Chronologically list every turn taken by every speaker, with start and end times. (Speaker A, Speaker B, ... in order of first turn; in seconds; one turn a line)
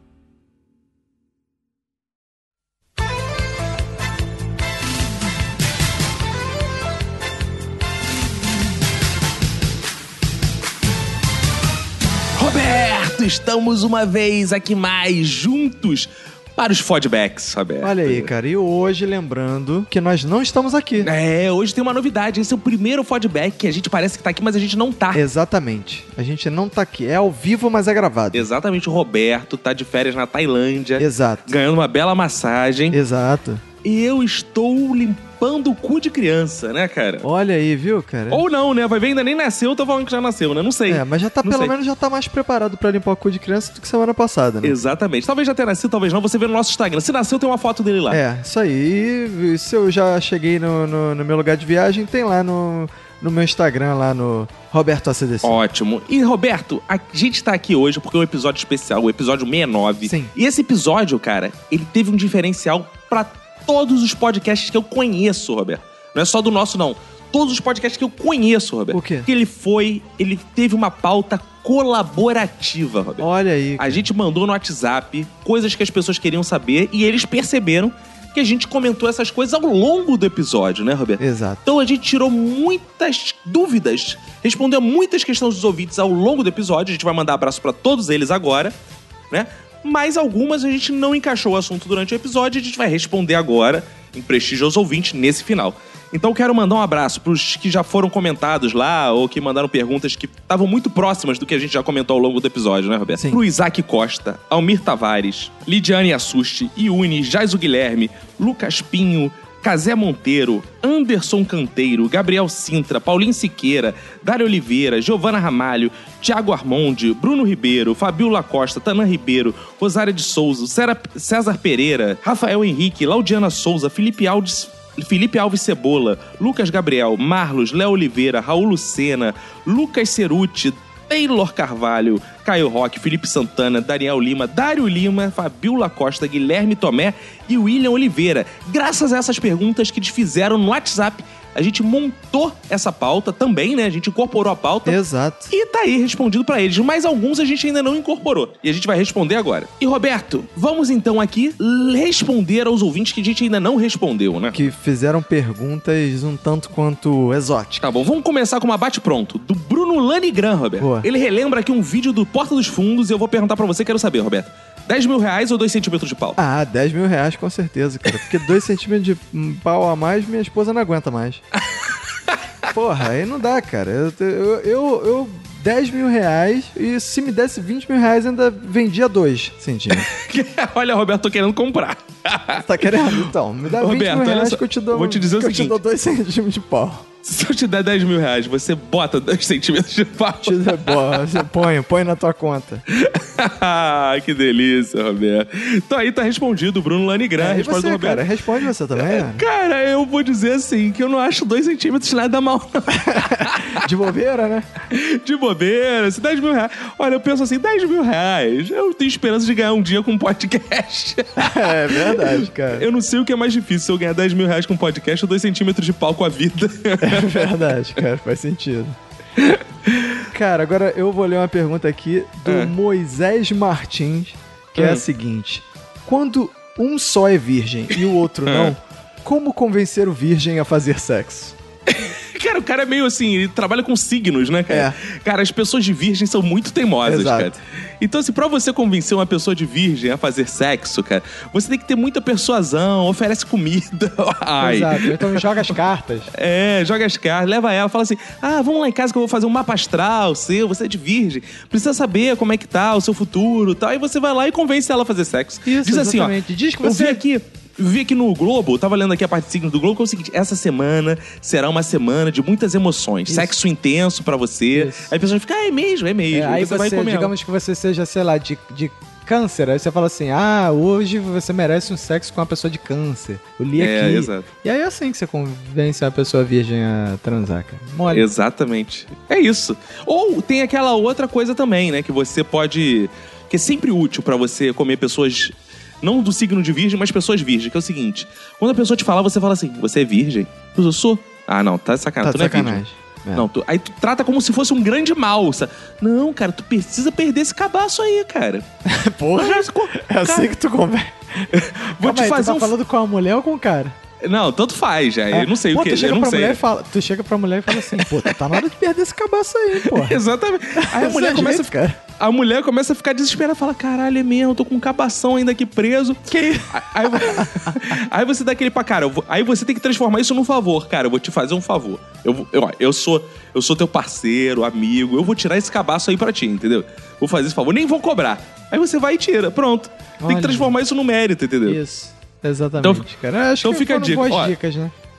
Speaker A: 12.4-18.3
Speaker B: 17.8-21.1
Speaker A: 21.0-25.2
Speaker B: 25.1-28.5
Speaker A: 28.3-33.0
Speaker B: 31.0-31.6
Speaker B: 32.9-33.6
Speaker A: 33.8-37.3
Speaker B: 37.2-38.4
Speaker A: 38.3-41.7
Speaker B: 40.9-44.8
Speaker A: 44.6-48.2
Speaker B: 48.1-55.6
Speaker A: 55.4-73.3
Speaker B: 60.0-60.3
Speaker B: 68.9-69.3
Speaker B: 73.2-74.0
Speaker A: 73.8-88.7
Speaker B: 81.2-81.6
Speaker A: 89.3-145.0
Speaker B: 144.9-145.5
Speaker A: 145.5-154.6
Speaker B: 154.5-157.9
Speaker A: 157.8-166.4
Speaker B: 166.4-171.4
Speaker B: 172.7-180.1
Speaker A: 180.1-182.7
Speaker B: 182.6-187.1
Speaker A: 183.8-185.8
Speaker A: 187.2-191.3
Speaker B: 190.4-192.8
Speaker A: 192.9-198.2
Speaker B: 197.4-199.4
Speaker A: 199.0-203.8
Speaker B: 203.7-204.7
Speaker A: 204.9-217.5
Speaker B: 211.4-212.9
Speaker B: 217.0-218.9
Speaker A: 219.4-220.2
Speaker B: 220.3-228.6
Speaker A: 222.5-222.7
Speaker A: 224.8-225.0
Speaker C: 224.8-225.2
Speaker C: 226.5-228.8
Speaker A: 228.5-228.8
Speaker B: 229.2-231.3
Speaker C: 230.6-231.6
Speaker A: 231.9-245.7
Speaker B: 234.7-234.9
Speaker B: 237.1-237.5
Speaker C: 244.6-246.3
Speaker A: 246.3-267.3
Speaker C: 255.7-257.2
Speaker C: 263.3-263.6
Speaker C: 264.7-265.1
Speaker C: 266.3-278.3
Speaker A: 273.8-274.5
Speaker A: 278.1-292.8
Speaker B: 292.2-293.5
Speaker A: 293.3-298.6
Speaker B: 298.9-301.1
Speaker A: 299.4-300.4
Speaker C: 301.4-304.0
Speaker A: 301.5-302.7
Speaker A: 304.2-306.6
Speaker C: 305.3-310.2
Speaker A: 307.9-308.5
Speaker A: 309.8-331.8
Speaker C: 310.8-312.0
Speaker C: 316.3-317.8
Speaker C: 330.2-330.7
Speaker C: 331.7-334.9
Speaker A: 332.8-333.1
Speaker A: 333.6-334.6